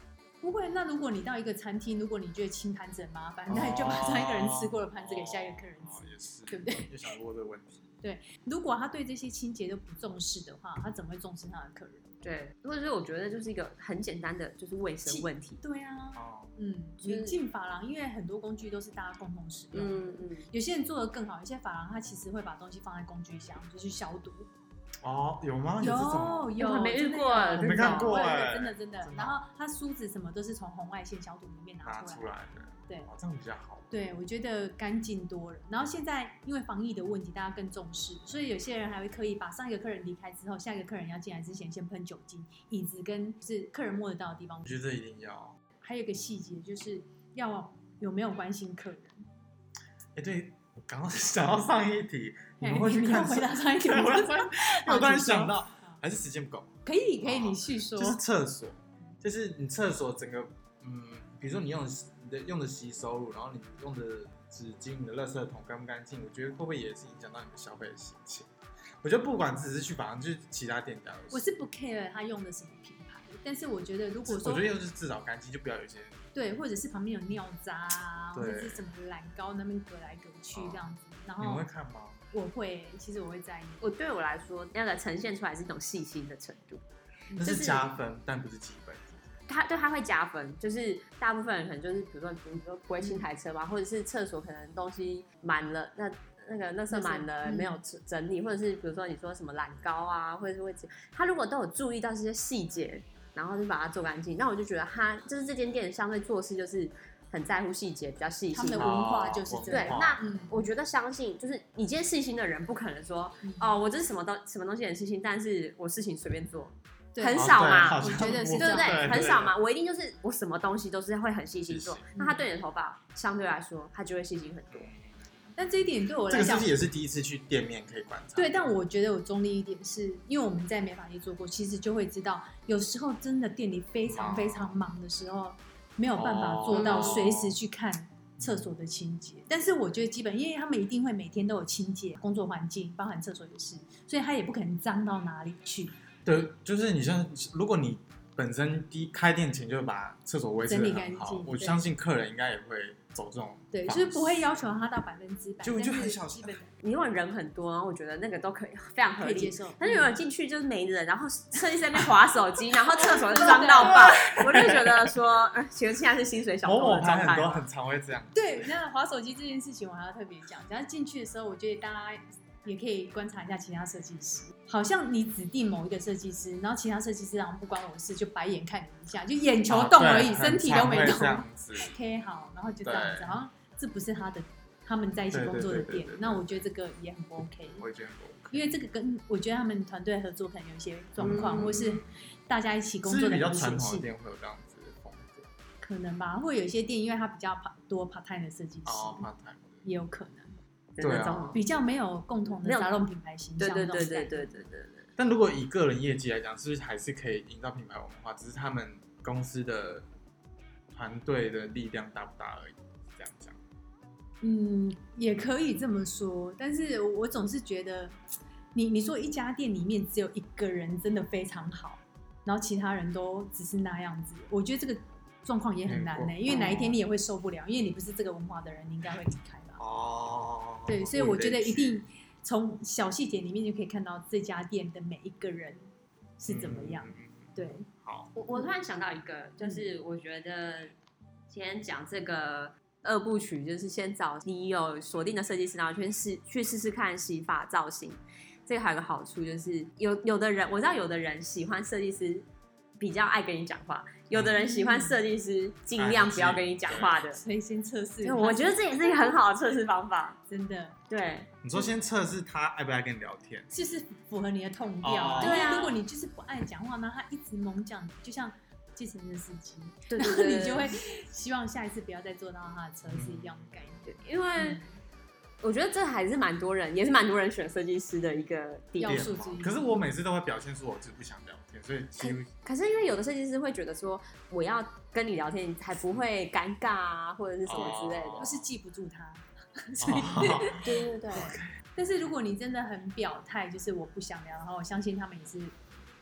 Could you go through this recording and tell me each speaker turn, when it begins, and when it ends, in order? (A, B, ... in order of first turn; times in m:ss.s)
0:00.4-0:06.9 A
0:03.5-0:07.9 B
0:08.0-0:12.1 A
0:12.2-0:15.6 C
0:15.1-0:24.5 A
0:16.1-0:16.5 B
0:17.0-0:17.4 C
0:19.7-0:20.5 C
0:25.0-0:26.5 B
0:25.8-0:32.3 A
0:26.6-0:28.2 C
0:27.5-0:29.4 B
0:31.8-0:33.9 B
0:33.9-0:44.7 A
0:44.6-0:45.6 B
0:45.8-0:49.2 A
0:50.2-1:08.5 B
0:52.6-0:56.0 A
0:56.8-0:58.2 A
1:09.0-1:11.5 B
1:11.3-1:14.7 A
1:14.3-1:16.3 B
1:16.3-1:21.6 A
1:18.4-1:18.8 B
1:20.5-1:20.8 B
1:21.4-1:22.2 B
1:22.3-1:23.8 A
1:23.8-1:26.8 C
1:27.3-1:27.7 A
1:27.4-1:29.3 B
1:27.4-1:27.8 C
1:29.5-1:49.0 C
1:33.0-1:33.3 A
1:36.9-1:37.8 A
1:48.5-1:50.6 A
1:48.8-1:50.4 B
1:49.7-2:04.9 C
1:53.4-1:53.8 A
1:57.1-1:59.2 A
1:57.3-1:59.6 B
2:01.7-2:02.0 B
2:02.2-2:02.5 A
2:04.7-2:05.6 B
2:05.6-2:06.7 A
2:06.3-2:08.8 B
2:08.4-2:26.0 A
2:14.1-2:14.8 B
2:16.1-2:17.6 B
2:16.7-2:17.3 C
2:18.4-2:18.7 B
2:26.2-2:34.5 B
2:30.6-2:31.9 A
2:33.7-2:36.7 A
2:35.6-2:36.6 B
2:36.8-2:47.6 C
2:39.2-2:40.2 A
2:43.0-2:44.3 A
2:43.5-2:45.2 B
2:46.6-2:48.7 B
2:48.3-3:07.9 A
2:59.7-3:02.0 B
3:02.8-3:03.4 B
3:05.3-3:06.6 B
3:07.8-3:08.7 B
3:08.5-3:14.1 A
3:11.2-3:11.8 B
3:11.2-3:11.9 C
3:13.0-3:15.5 B
3:15.8-3:19.3 A
3:18.9-3:19.8 B
3:19.8-3:20.6 A
3:21.0-3:21.6 C
3:21.0-3:21.6 B
3:21.5-3:24.5 A
3:22.6-3:23.1 C
3:23.6-3:25.1 C
3:25.2-3:30.1 B
3:30.9-3:33.6 B
3:34.4-3:38.1 A
3:38.7-3:49.8 A
3:45.8-3:47.0 B
3:49.8-3:52.0 B
3:50.9-3:55.8 A
3:56.4-3:57.9 A
3:56.5-3:58.3 B
3:58.4-4:00.9 C
3:59.6-3:59.9 A
4:01.5-4:12.4 C
4:13.0-4:17.4 C
4:14.3-4:14.6 B
4:14.6-4:15.2 A
4:16.0-4:17.3 B
4:17.4-4:19.4 A
4:18.2-4:20.4 C
4:20.5-4:21.0 A
4:21.1-4:21.5 C
4:21.6-4:23.7 B
4:23.7-4:35.0 A
4:25.0-4:25.8 B
4:25.4-4:26.0 C
4:30.1-4:30.9 C
4:33.1-4:34.0 B
4:34.2-4:34.8 C
4:35.6-4:39.3 C
4:39.0-4:40.0 A
4:39.0-4:42.5 B
4:42.2-4:48.5 C
4:47.7-4:48.6 B
4:48.4-4:55.8 A
4:50.0-4:51.6 B
4:50.8-4:51.6 C